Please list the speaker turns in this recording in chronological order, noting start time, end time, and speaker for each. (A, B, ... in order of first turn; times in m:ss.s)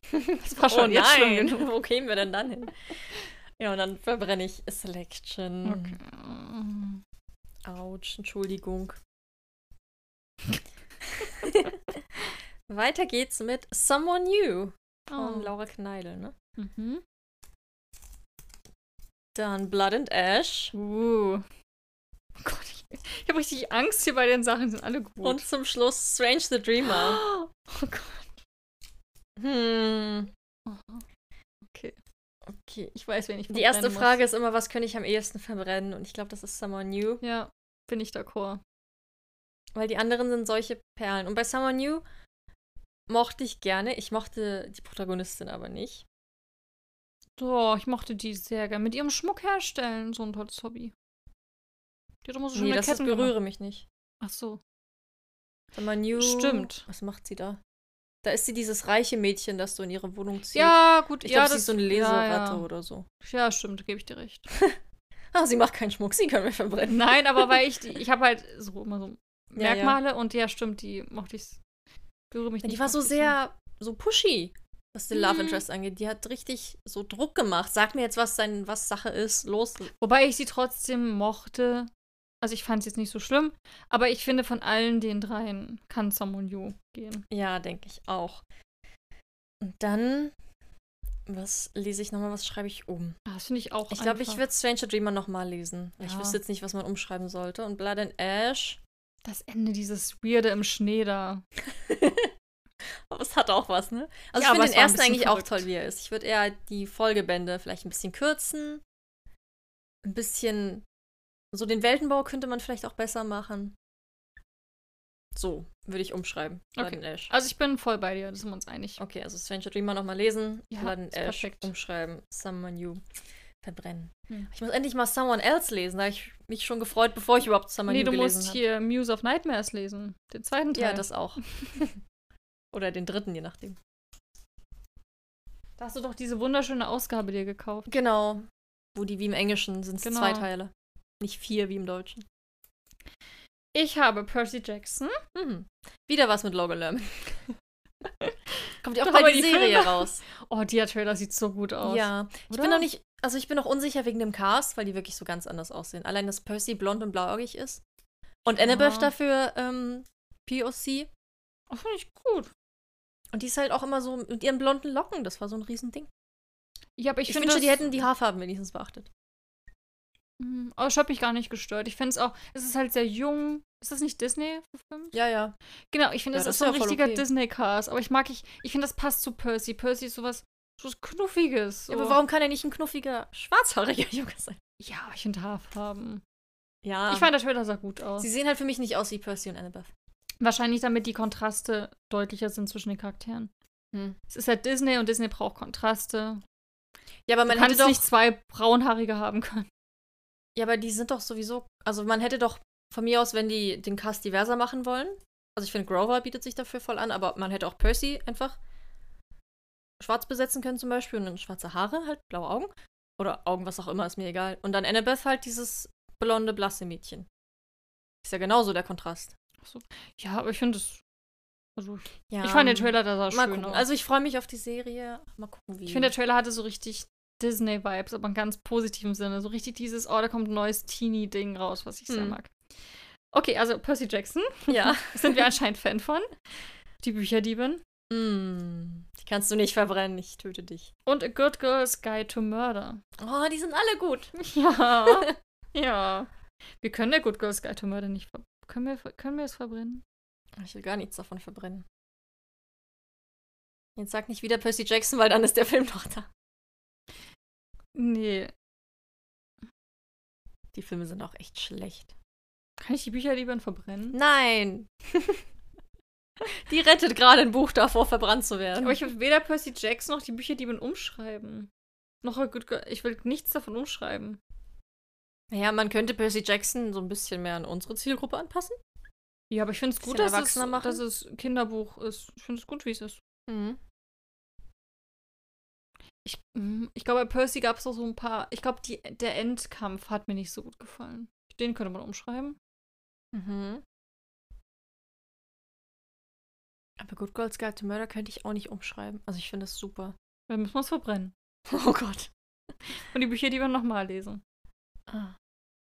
0:00.1-0:02.9 A
0:00.3-0:01.6 B
0:03.6-0:06.0 A
0:05.6-0:07.0 B
0:07.6-0:09.0 A
0:11.1-0:12.0 A
0:12.7-0:16.3 A
0:15.1-0:15.5 B
0:16.6-0:17.0 B
0:19.3-0:20.7 A
0:20.8-0:21.4 B
0:22.4-0:25.4 B
0:25.2-0:27.2 A
0:26.8-0:28.4 B
0:29.4-0:30.3 A
0:30.7-0:31.0 B
0:31.6-0:32.0 B
0:32.4-0:32.9 A
0:32.9-0:34.2 B
0:33.5-0:37.2 A
0:37.2-0:38.6 B
0:39.8-0:42.0 A
0:43.1-0:46.1 A
0:47.4-0:50.9 B
0:52.2-0:53.3 B
0:52.5-0:53.8 A
0:54.2-0:54.6 B
0:55.8-0:57.6 A
0:56.2-0:56.8 B
0:58.2-1:03.1 A
1:00.5-1:02.6 B
1:03.2-1:04.5 B
1:05.3-1:07.6 A
1:06.9-1:11.6 B
1:09.6-1:10.0 A
1:12.3-1:13.4 B
1:12.6-1:19.9 A
1:15.1-1:15.6 B
1:20.0-1:21.9 B
1:22.4-1:27.2 B
1:27.3-1:28.4 A
1:29.6-1:30.3 A
1:31.3-1:33.2 A
1:33.2-1:34.4 B
1:33.9-1:38.8 A
1:36.0-1:36.4 B
1:39.2-1:41.4 B
1:41.7-1:42.3 A
1:43.1-1:48.8 A
1:44.3-1:45.6 B
1:50.0-1:50.8 A
1:51.5-1:53.8 A
1:55.3-1:57.3 A
1:56.8-1:59.0 B
1:59.0-2:03.0 A
2:00.7-2:01.7 B
2:03.6-2:08.6 A
2:07.9-2:11.8 B
2:10.7-2:12.0 A
2:12.7-2:13.8 A
2:15.8-2:17.9 B
2:17.9-2:22.2 A
2:20.0-2:20.5 B
2:23.7-2:25.2 B
2:25.3-2:27.2 A
2:28.8-2:30.2 A
2:29.0-2:32.9 B
2:31.8-2:37.8 A
2:38.4-2:41.1 A
2:38.5-2:39.1 B
2:41.7-2:42.5 B
2:43.3-2:46.1 A
2:47.0-2:48.1 B
2:47.3-2:49.1 A
2:50.4-2:55.1 B
2:55.1-2:55.6 A
2:55.9-3:02.2 B
2:56.3-2:57.2 A
3:01.9-3:04.6 A
3:04.8-3:06.2 B
3:06.8-3:07.3 A
3:07.1-3:08.3 B
3:08.2-3:09.9 A
3:10.4-3:13.5 B
3:14.3-3:16.4 B
3:17.3-3:18.0 A
3:17.5-3:19.7 B
3:20.6-3:28.6 A
3:30.0-3:37.3 A
3:38.2-3:39.3 A
3:39.6-3:41.0 B
3:41.8-3:43.8 B
3:42.3-3:46.1 A
3:45.9-3:52.5 B
3:52.1-3:52.4 A
3:53.3-3:56.3 B
3:54.7-3:55.4 A
3:57.0-3:57.8 B
3:58.1-4:00.9 A
4:01.1-4:03.0 B
4:03.2-4:04.3 A
4:04.4-4:06.3 B
4:05.0-4:05.3 A
4:06.8-4:10.0 B
4:10.6-4:11.8 A
4:14.0-4:16.3 A
4:17.9-4:18.5 B
4:20.7-4:22.1 A
4:22.8-4:24.2 B
4:24.1-4:25.4 A
4:26.4-4:29.0 A
4:28.8-4:31.7 B
4:32.2-4:34.4 B
4:35.5-4:38.8 A
4:39.5-4:43.2 B
4:40.0-4:41.0 A
4:43.5-4:43.8 A
4:46.2-4:52.6 B
4:53.3-4:53.8 A
4:57.0-5:00.1 A
5:00.5-5:01.3 B
5:01.7-5:02.3 A
5:02.9-5:04.4 B
5:05.1-5:05.4 A